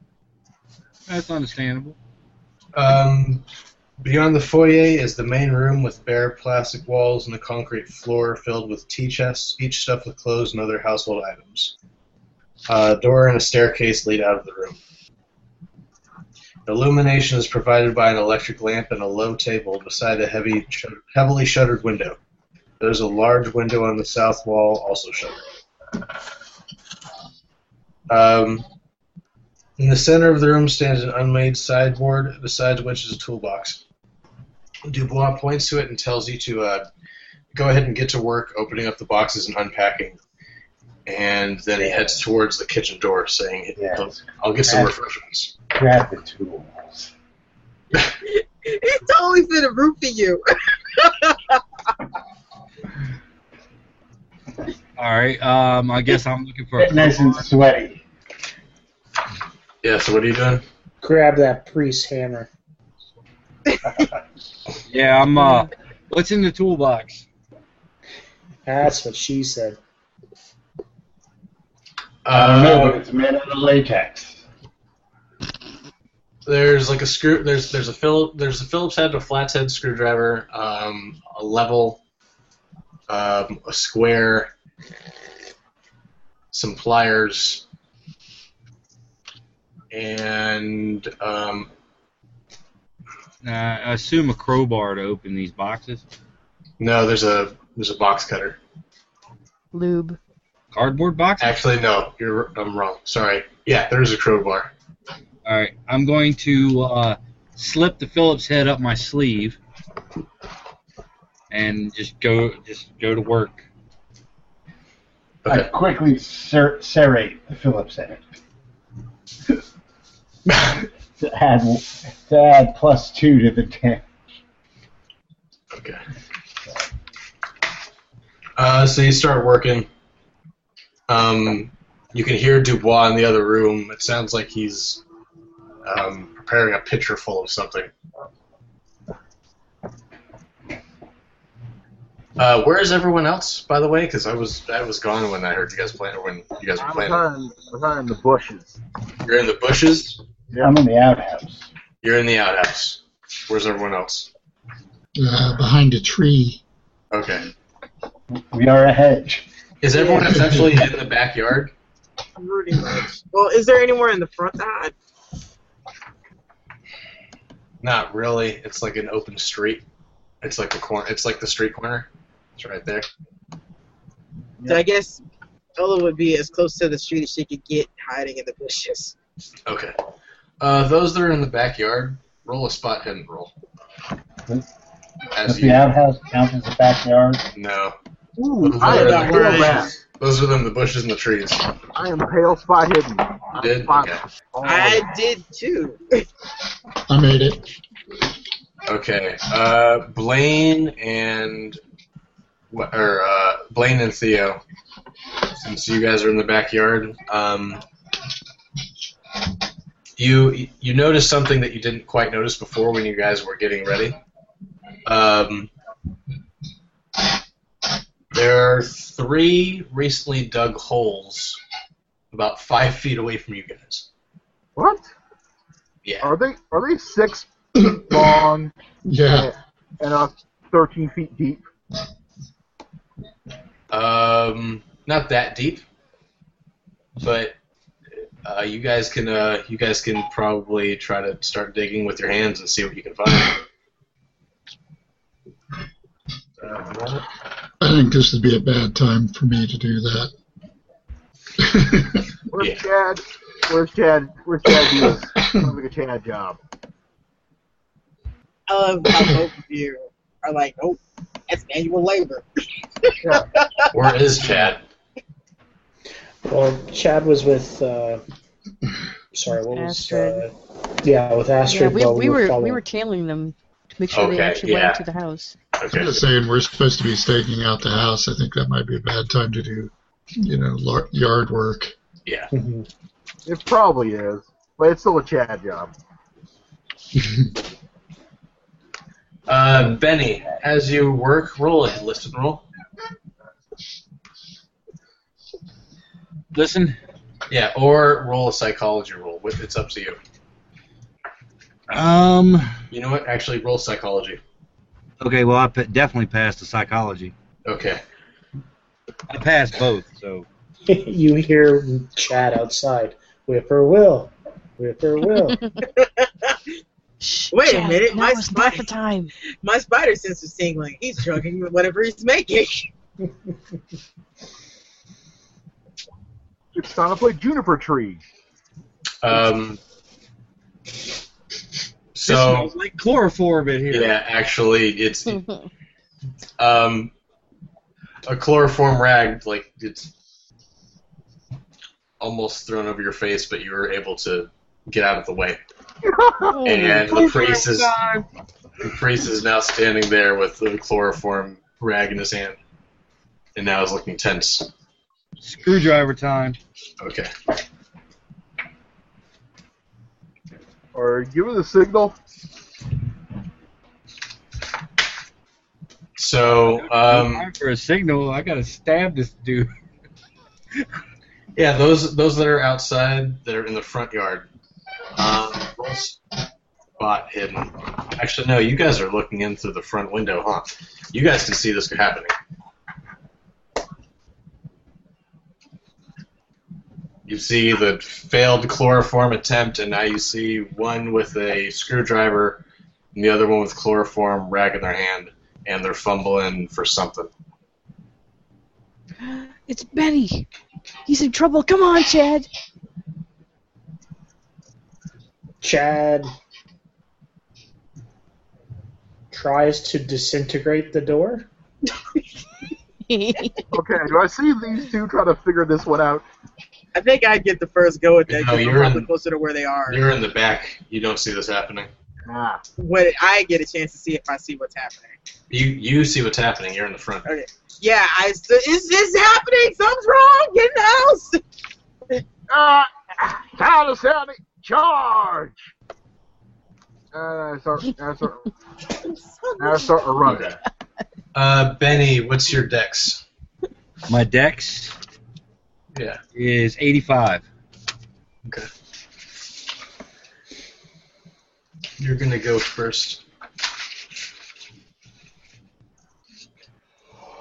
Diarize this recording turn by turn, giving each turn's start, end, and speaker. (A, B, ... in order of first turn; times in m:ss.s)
0:01.1-0:02.0 A
0:02.7-0:03.4 B
0:04.0-0:11.7 B
0:12.7-0:14.8 B
0:16.6-0:22.2 B
0:22.8-0:25.4 B
0:28.1-0:28.6 B
0:29.8-0:33.8 B
0:34.8-0:36.8 B
0:37.5-0:40.2 B
0:41.0-0:45.5 B
0:41.8-0:42.2 C
0:43.8-0:44.9 C
0:45.7-0:47.1 C
0:48.2-0:51.6 D
0:55.0-0:57.4 A
0:56.8-0:58.0 C
0:59.8-1:00.6 B
1:01.0-1:02.5 E
1:04.9-1:07.2 A
1:05.4-1:05.6 F
1:08.6-1:09.8 E
1:12.2-1:13.0 B
1:12.3-1:14.4 C
1:16.4-1:22.0 B
1:23.1-1:24.5 B
1:26.5-1:27.6 B
1:29.9-1:31.7 B
1:33.4-1:36.0 A
1:36.8-1:38.6 B
1:39.7-1:40.2 F
1:40.7-1:41.6 A
1:41.4-1:44.7 B
1:45.4-1:49.6 A
1:51.5-1:53.6 A
1:55.5-1:58.3 C
2:00.5-2:04.1 C
2:05.7-2:06.0 B
2:08.6-2:09.9 B
2:11.1-2:15.0 B
2:15.8-2:17.9 B
2:22.4-2:27.2 B
2:26.8-2:28.8 G
2:29.2-2:30.2 B
2:30.6-2:31.7 C
2:32.0-2:34.3 B
2:35.2-2:36.6 H
2:37.1-2:37.5 B
2:38.3-2:39.4 C
2:39.8-2:41.7 B
2:40.3-2:40.7 H
2:42.4-2:44.9 D
2:47.8-2:49.8 B
2:50.4-2:53.0 B
2:54.6-2:54.8 G
2:54.7-2:55.2 D
2:55.8-2:59.1 D
2:59.6-2:59.9 B
3:00.6-3:03.5 B
3:05.3-3:05.8 B
3:05.4-3:07.4 C
3:07.5-3:08.0 B
3:08.4-3:09.9 G
3:08.6-3:11.6 B
3:08.8-3:09.9 D
3:11.9-3:15.1 G
3:13.6-3:14.2 B
3:14.6-3:16.2 D
3:17.1-3:17.6 H
3:18.8-3:21.8 B
3:22.7-3:24.6 B
3:25.6-3:27.8 B
3:30.2-3:34.2 B
3:35.0-3:35.7 B
3:38.3-3:41.6 B
3:42.3-3:44.1 B
3:44.8-3:45.1 G
3:46.0-3:46.3 B
3:46.2-3:48.7 G
3:47.9-3:48.3 H
3:49.0-3:49.5 H
3:49.2-3:51.6 G
3:53.9-3:55.8 B
3:57.2-3:57.5 B
3:58.2-4:03.6 B
4:06.6-4:07.2 G
4:07.8-4:10.3 H
4:11.6-4:12.2 H
4:12.5-4:16.6 G
4:12.6-4:12.8 B
4:15.4-4:15.7 H
4:18.7-4:22.4 D
4:23.0-4:23.9 D
4:23.9-4:24.8 B
4:26.4-4:28.2 E
4:29.3-4:32.8 E
4:29.7-4:30.4 F
4:31.6-4:35.6 F
4:34.1-4:35.0 B
4:35.8-4:36.2 B
4:35.9-4:41.9 H
4:42.2-4:42.5 B
4:42.5-4:42.9 E
4:43.4-4:45.9 G
4:47.2-4:47.5 H
4:49.5-4:52.6 B
4:56.5-4:57.0 A
4:57.5-5:00.2 B
5:01.9-5:02.7 A
5:02.9-5:04.4 B
5:05.2-5:07.3 A
5:07.6-5:08.0 B
5:09.3-5:10.4 A
5:10.9-5:15.6 E
5:15.9-5:16.7 D
5:17.2-5:19.3 F
5:17.5-5:18.9 D
5:19.6-5:22.9 D
5:26.7-5:28.2 G
5:29.2-5:29.8 B
5:32.1-5:32.7 B
5:32.2-5:34.1 A
5:33.9-5:35.4 B
5:35.3-5:35.7 F
5:36.6-5:37.1 B
5:38.3-5:40.1 B
5:42.2-5:45.6 B
5:46.0-5:46.6 G
5:46.5-5:47.9 F
5:46.6-5:47.9 B
5:48.8-5:52.6 B
5:53.5-5:54.7 B
5:55.4-5:56.6 A
5:57.0-5:57.3 B
6:00.9-6:02.1 G
6:06.2-6:07.5 B
6:06.7-6:09.7 A
6:11.6-6:14.5 B
6:15.2-6:16.2 B
6:17.0-6:22.3 B
6:27.2-6:32.6 B
6:33.1-6:37.3 B
6:39.2-6:40.4 F
6:41.1-6:42.5 F
6:45.6-6:46.3 E
6:49.3-6:51.5 E
6:53.1-6:53.6 F
6:53.7-6:56.2 G
6:56.9-7:00.0 D
6:58.3-6:59.1 B
6:59.9-7:01.9 B
7:02.2-7:02.6 G
7:02.8-7:05.2 D
7:05.5-7:07.2 B
7:07.2-7:11.4 D
7:12.5-7:15.6 G
7:17.1-7:18.5 G
7:19.0-7:19.9 D
7:19.6-7:20.6 G
7:20.2-7:20.6 B
7:21.3-7:23.2 B
7:24.1-7:25.0 A
7:25.9-7:26.2 B
7:26.3-7:27.4 A
7:32.0-7:33.2 B